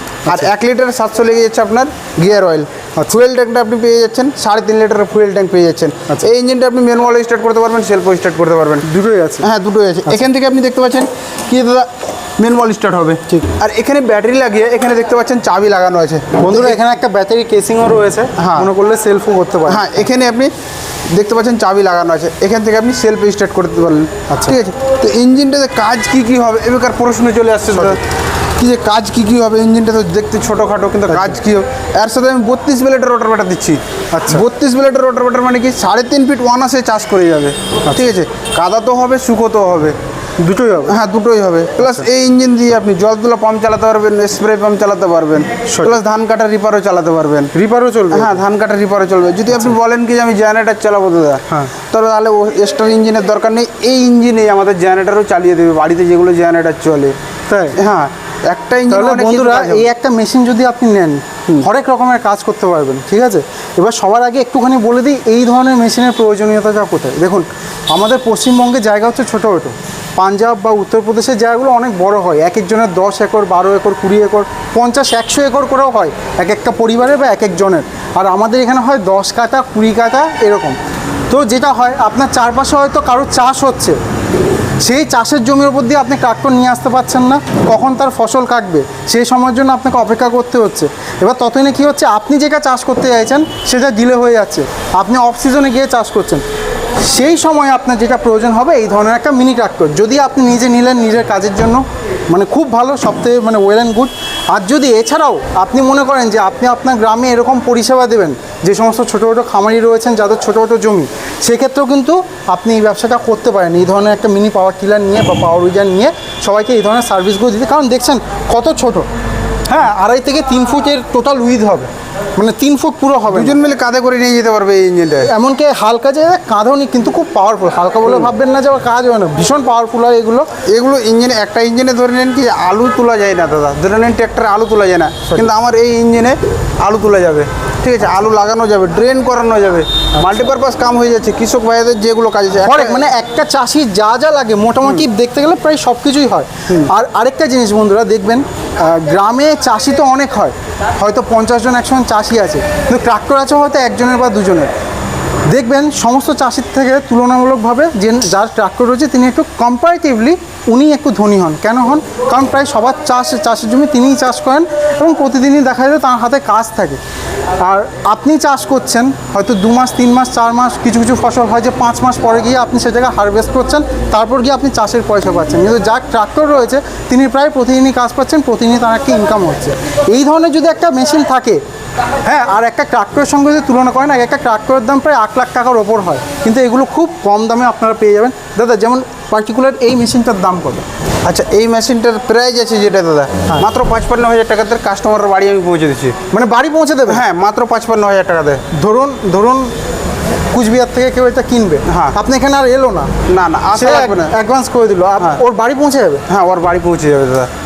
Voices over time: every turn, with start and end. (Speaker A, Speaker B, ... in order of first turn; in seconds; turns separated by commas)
Speaker A: 0.2-8.8, Speaker B: 8.8-9.5, Speaker A: 9.4-16.8, Speaker B: 16.4-19.8, Speaker A: 18.4-18.7, Speaker A: 19.7-20.5, Speaker A: 21.1-28.0, Speaker B: 24.3-24.6, Speaker B: 27.7-28.0, Speaker A: 28.6-40.0, Speaker B: 31.1-31.4, Speaker B: 34.1-34.4, Speaker B: 37.9-38.1, Speaker B: 40.4-41.0, Speaker A: 40.9-47.5, Speaker B: 45.7-46.0, Speaker B: 47.5-48.4, Speaker A: 48.1-57.1, Speaker B: 57.5-57.8, Speaker A: 57.7-59.9, Speaker B: 58.9-80.8, Speaker B: 81.3-84.0, Speaker B: 84.8-96.4, Speaker B: 97.0-119.1, Speaker B: 119.7-123.6, Speaker A: 123.3-125.3, Speaker B: 125.2-130.5, Speaker A: 128.0-128.3, Speaker A: 130.6-143.0, Speaker B: 140.2-140.4, Speaker B: 142.6-154.7, Speaker B: 155.5-167.0, Speaker B: 167.6-181.6, Speaker B: 182.2-190.8, Speaker A: 191.2-196.2, Speaker B: 196.3-197.2, Speaker A: 197.1-198.6, Speaker B: 198.7-199.7, Speaker B: 200.5-203.1, Speaker A: 201.8-202.2, Speaker A: 203.2-204.3, Speaker B: 203.7-206.2, Speaker A: 206.3-207.5